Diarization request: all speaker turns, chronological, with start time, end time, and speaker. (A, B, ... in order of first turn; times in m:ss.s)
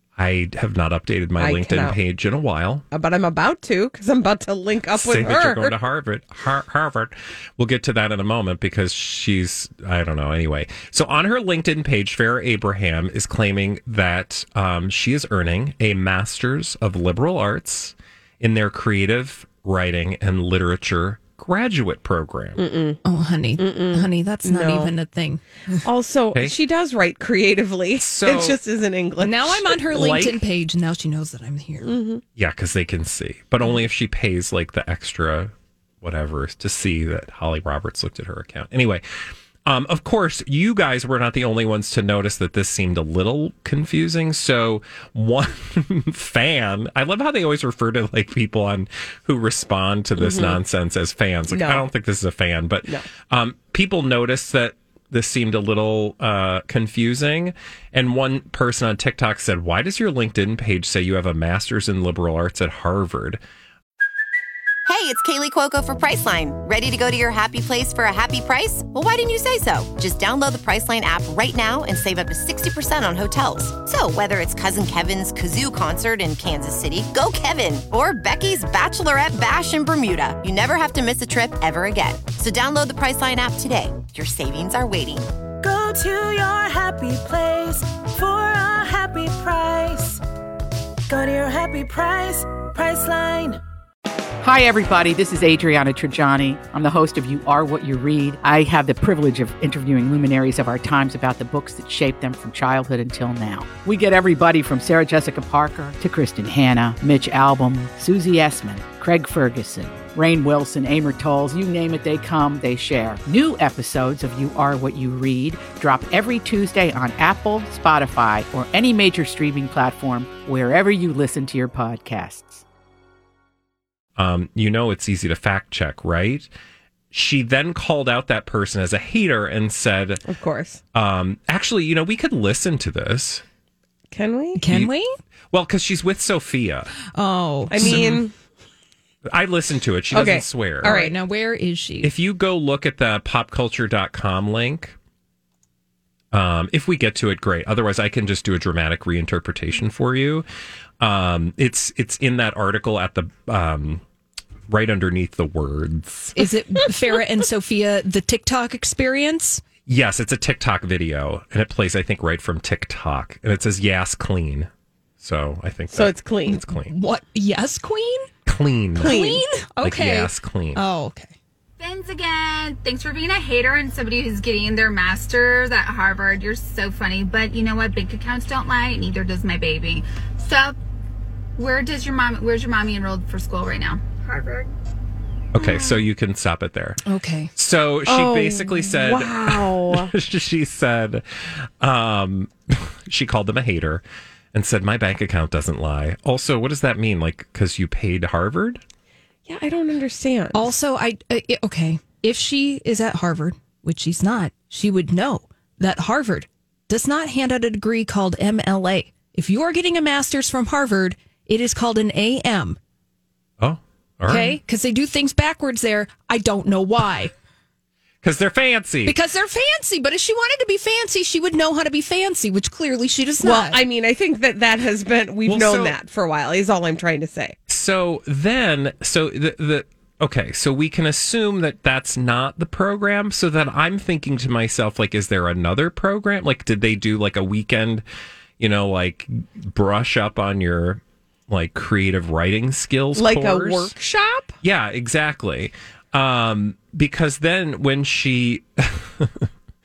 0:00.2-0:02.8 A
0:01.4-0:02.0 B
0:02.9-0:05.7 B
0:04.9-0:22.6 A
0:22.6-0:23.0 B
0:23.0-0:25.8 C
0:23.6-0:24.9 B
0:25.8-0:29.8 B
0:28.0-0:28.6 A
0:29.2-0:31.9 C
0:29.9-0:30.4 A
0:31.8-0:32.2 B
0:32.4-0:39.0 A
0:39.7-1:03.4 A
0:50.2-0:50.6 B
0:51.5-0:51.8 B
1:04.9-1:25.3 D
1:25.6-1:30.2 E
1:31.1-1:33.6 E
1:34.4-2:02.6 F
2:04.2-2:06.5 A
2:07.1-2:10.2 A
2:10.3-2:10.8 B
2:10.9-2:13.4 A
2:14.1-2:14.6 B
2:14.6-2:15.1 C
2:14.7-2:14.9 A
2:15.5-2:17.0 A
2:17.1-2:18.2 C
2:17.7-2:18.3 B
2:17.8-2:18.2 A
2:19.3-2:21.0 A
2:20.1-2:21.1 B
2:20.8-2:22.1 C
2:22.0-2:25.0 A
2:26.3-2:30.5 A
2:31.0-2:34.0 A
2:34.7-2:36.4 A
2:36.4-2:39.6 C
2:39.9-2:44.7 A
2:45.2-2:46.9 A
2:45.9-2:46.6 B
2:46.6-2:48.3 C
2:48.5-2:49.2 A
2:49.0-2:51.3 C
2:49.0-2:49.4 B
2:49.8-2:50.8 A
2:51.8-3:00.8 G
3:01.6-3:04.7 G
3:05.5-3:07.0 A
3:07.0-3:07.5 C
3:07.6-3:18.8 A
3:08.1-3:10.1 B
3:19.5-3:20.7 B
3:20.5-3:32.8 C
3:33.6-3:34.6 A
3:34.3-3:37.3 C
3:38.2-3:39.2 A
3:39.1-3:43.8 C
3:43.4-3:47.6 B
3:45.5-3:46.0 A
3:47.7-3:58.0 A
3:58.6-4:03.9 A
4:03.2-4:04.6 B
4:04.6-4:09.5 A